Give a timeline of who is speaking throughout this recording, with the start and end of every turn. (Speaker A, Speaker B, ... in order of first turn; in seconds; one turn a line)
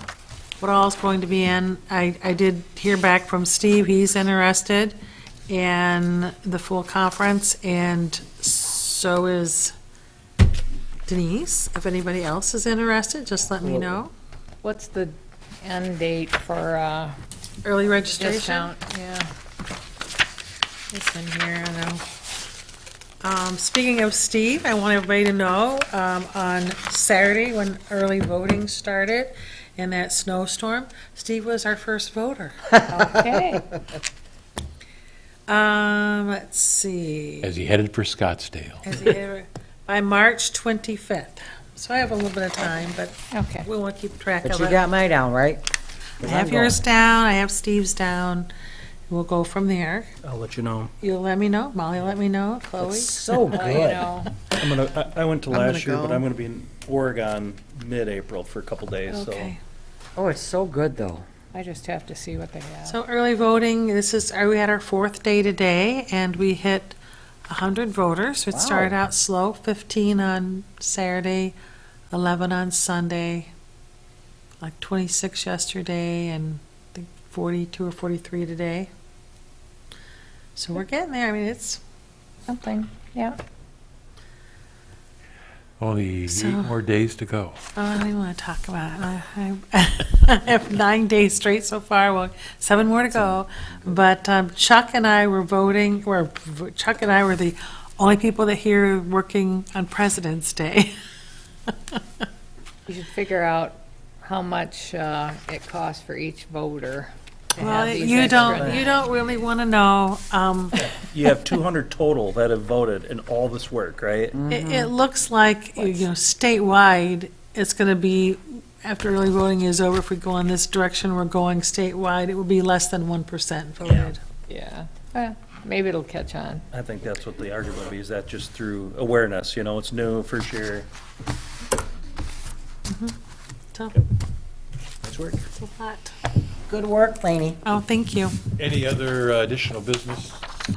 Speaker A: 0.6-5.0
Speaker A: 5.5-9.7
Speaker A: 11.1-14.1
Speaker B: 13.6-14.0
Speaker C: 14.6-17.2
Speaker A: 17.6-18.7
Speaker C: 17.9-19.3
Speaker A: 20.9-22.0
Speaker A: 23.2-32.7
Speaker C: 32.9-33.6
Speaker A: 35.5-37.5
Speaker D: 37.4-38.8
Speaker A: 38.8-44.8
Speaker C: 43.3-43.7
Speaker B: 44.4-45.7
Speaker B: 46.2-46.8
Speaker A: 46.2-48.5
Speaker A: 49.1-50.1
Speaker E: 50.2-50.9
Speaker A: 51.0-53.7
Speaker B: 52.8-54.1
Speaker C: 53.5-54.4
Speaker E: 54.6-59.5
Speaker A: 59.1-59.6
Speaker B: 60.2-61.3
Speaker C: 61.5-63.0
Speaker A: 62.9-67.0
Speaker A: 67.5-71.5
Speaker B: 68.5-69.0
Speaker A: 72.1-73.5
Speaker A: 74.6-78.9
Speaker A: 80.6-81.8
Speaker C: 82.5-83.4
Speaker D: 85.8-87.6
Speaker A: 86.3-86.7
Speaker A: 87.8-100.9
Speaker B: 93.2-93.9
Speaker C: 102.9-109.0
Speaker A: 107.6-110.8
Speaker E: 111.1-114.4
Speaker B: 114.3-114.9
Speaker A: 114.5-124.2
Speaker C: 115.8-116.0
Speaker E: 123.8-124.1
Speaker C: 124.5-126.7
Speaker E: 126.7-130.9
Speaker A: 132.9-133.1
Speaker A: 133.7-134.0
Speaker E: 135.0-135.4
Speaker A: 135.6-136.1
Speaker B: 136.7-137.6
Speaker A: 137.7-138.4
Speaker D: 138.6-140.4